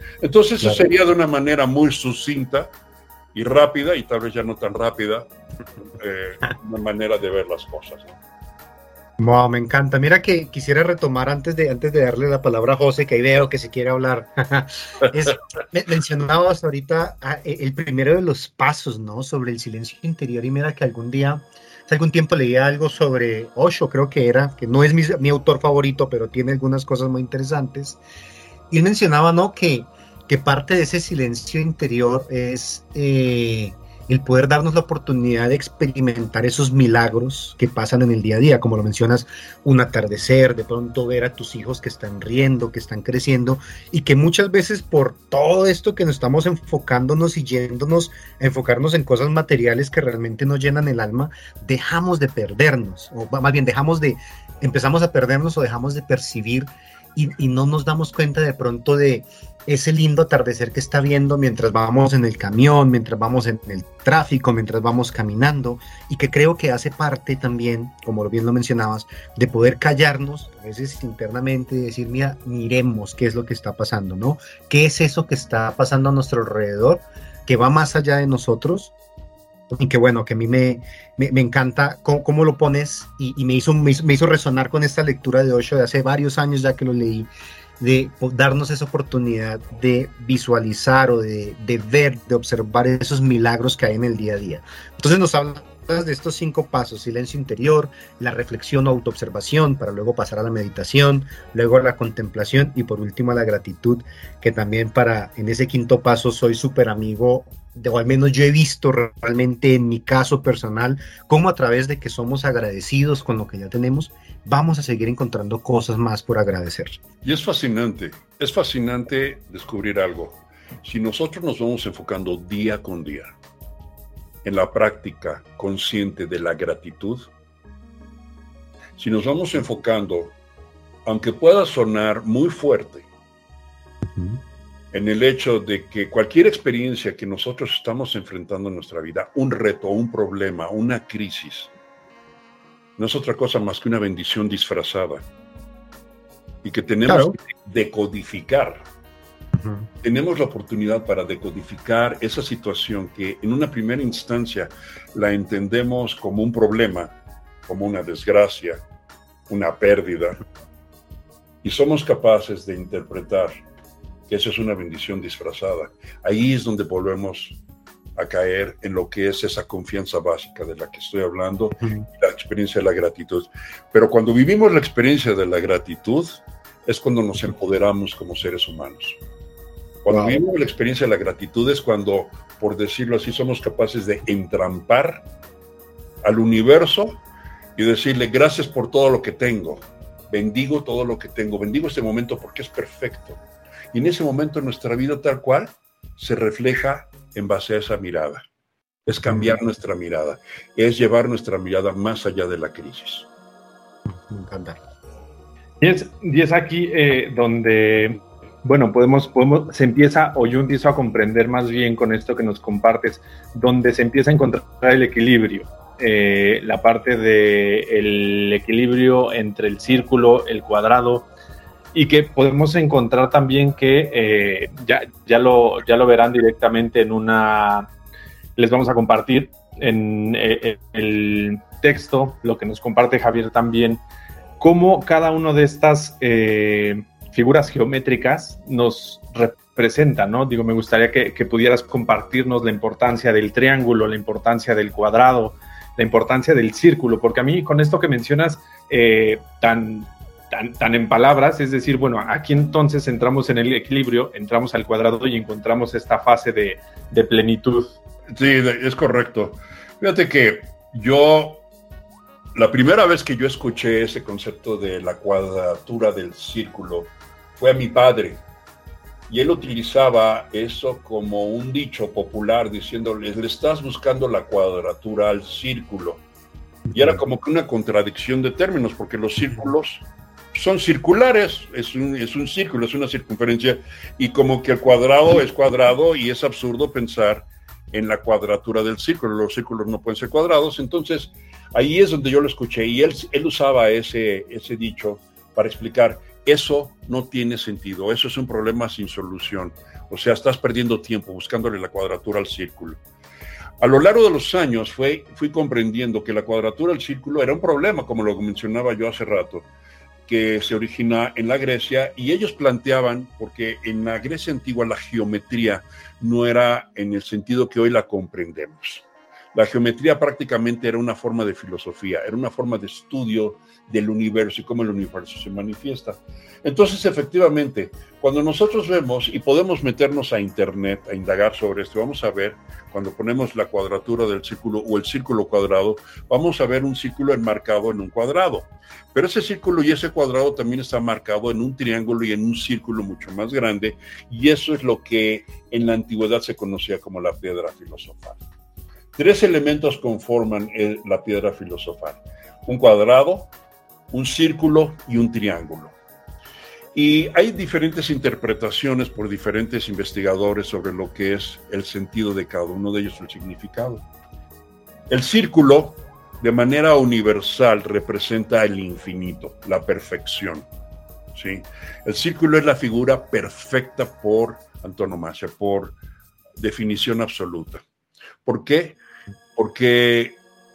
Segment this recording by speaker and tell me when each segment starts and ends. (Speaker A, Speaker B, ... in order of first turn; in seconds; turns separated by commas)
Speaker A: 0.2-2.7, Speaker A: 3.3-5.3, Speaker A: 5.9-8.2, Speaker B: 9.2-28.0, Speaker B: 28.7-78.9, Speaker B: 79.7-117.0, Speaker A: 117.2-123.3, Speaker A: 124.4-127.3, Speaker A: 129.0-130.3, Speaker A: 131.0-133.1, Speaker B: 134.1-134.4, Speaker A: 134.9-141.7, Speaker A: 143.0-145.2, Speaker A: 146.6-148.8, Speaker B: 147.1-147.3, Speaker B: 149.6-149.9, Speaker A: 150.0-157.1, Speaker A: 157.7-158.8, Speaker A: 159.5-160.4, Speaker A: 161.6-163.5, Speaker A: 164.3-167.6, Speaker A: 168.2-179.2, Speaker B: 171.8-172.1, Speaker A: 180.0-185.2, Speaker B: 180.1-180.4, Speaker A: 186.2-187.2, Speaker A: 187.8-193.4, Speaker A: 193.9-198.4, Speaker A: 199.1-203.3, Speaker B: 199.3-199.6, Speaker B: 204.1-204.8, Speaker C: 205.8-221.3, Speaker C: 221.9-227.9, Speaker C: 228.6-234.0, Speaker C: 234.6-257.9, Speaker A: 258.3-261.6, Speaker A: 262.5-268.4, Speaker A: 269.3-276.2, Speaker A: 276.9-303.0, Speaker A: 303.8-309.7, Speaker A: 310.3-348.4, Speaker A: 349.1-353.5, Speaker A: 354.1-355.9, Speaker A: 356.9-364.0, Speaker A: 365.1-370.7, Speaker A: 371.3-375.9, Speaker A: 376.6-377.8, Speaker A: 378.4-379.0, Speaker A: 379.6-380.4